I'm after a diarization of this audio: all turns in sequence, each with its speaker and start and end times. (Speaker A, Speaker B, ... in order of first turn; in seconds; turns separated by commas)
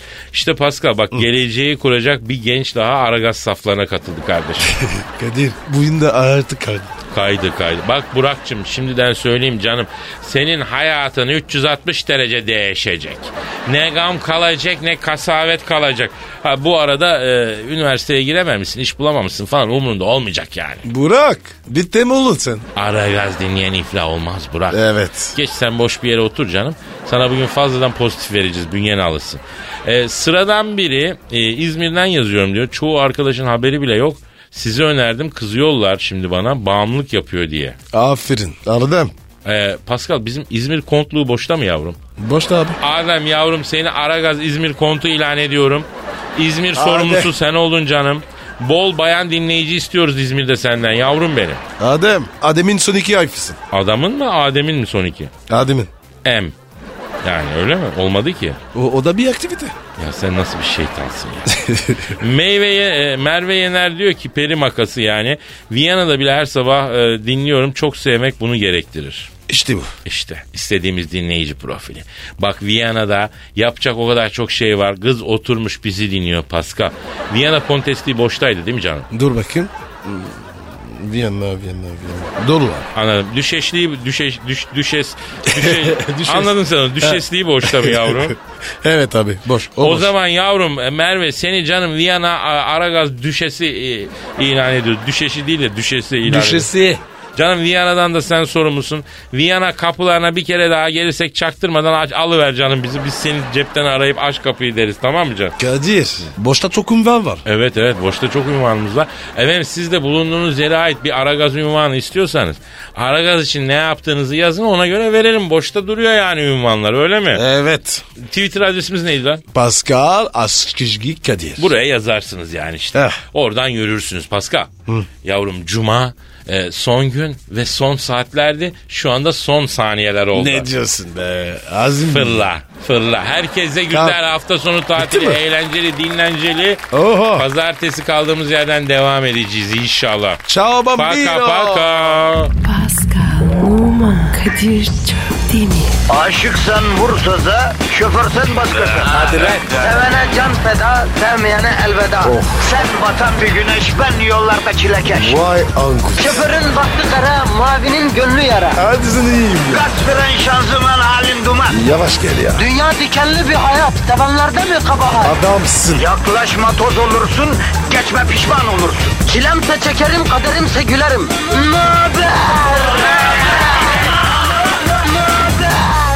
Speaker A: 0.3-4.8, Speaker B: 4.7-6.9, Speaker A: 7.1-20.9, Speaker B: 20.8-22.6, Speaker A: 22.8-37.8, Speaker B: 24.7-25.4, Speaker B: 37.9-39.1, Speaker A: 39.4-42.0, Speaker B: 42.2-42.8, Speaker A: 42.8-51.6, Speaker B: 46.7-47.3, Speaker B: 51.8-53.6, Speaker A: 53.7-55.3, Speaker B: 55.5-55.9, Speaker A: 56.2-56.5, Speaker A: 57.2-58.6, Speaker B: 58.7-59.8, Speaker A: 60.0-69.3, Speaker B: 61.5-62.2, Speaker B: 69.5-69.9, Speaker A: 70.0-79.1, Speaker B: 79.1-82.9, Speaker A: 82.9-88.3, Speaker B: 85.5-90.1, Speaker A: 89.8-96.7, Speaker B: 96.2-97.0, Speaker A: 97.3-105.5, Speaker B: 105.6-107.5, Speaker A: 107.5-117.4, Speaker B: 117.3-118.0, Speaker A: 118.2-119.4, Speaker B: 119.5-121.7, Speaker A: 121.6-124.7, Speaker B: 122.9-123.2, Speaker A: 125.2-130.7, Speaker B: 130.3-132.5, Speaker A: 132.1-136.8, Speaker B: 133.9-134.2, Speaker B: 135.0-135.4, Speaker B: 136.9-137.5, Speaker A: 137.3-140.4, Speaker B: 140.5-141.9, Speaker A: 141.0-142.5, Speaker C: 142.6-146.0, Speaker D: 146.1-155.4, Speaker B: 152.2-152.7, Speaker B: 155.1-156.5, Speaker D: 156.2-158.8, Speaker B: 158.8-159.9, Speaker D: 159.7-161.8, Speaker B: 161.7-162.7, Speaker D: 162.6-165.4, Speaker B: 165.2-166.1, Speaker D: 165.9-173.6, Speaker D: 175.1-176.0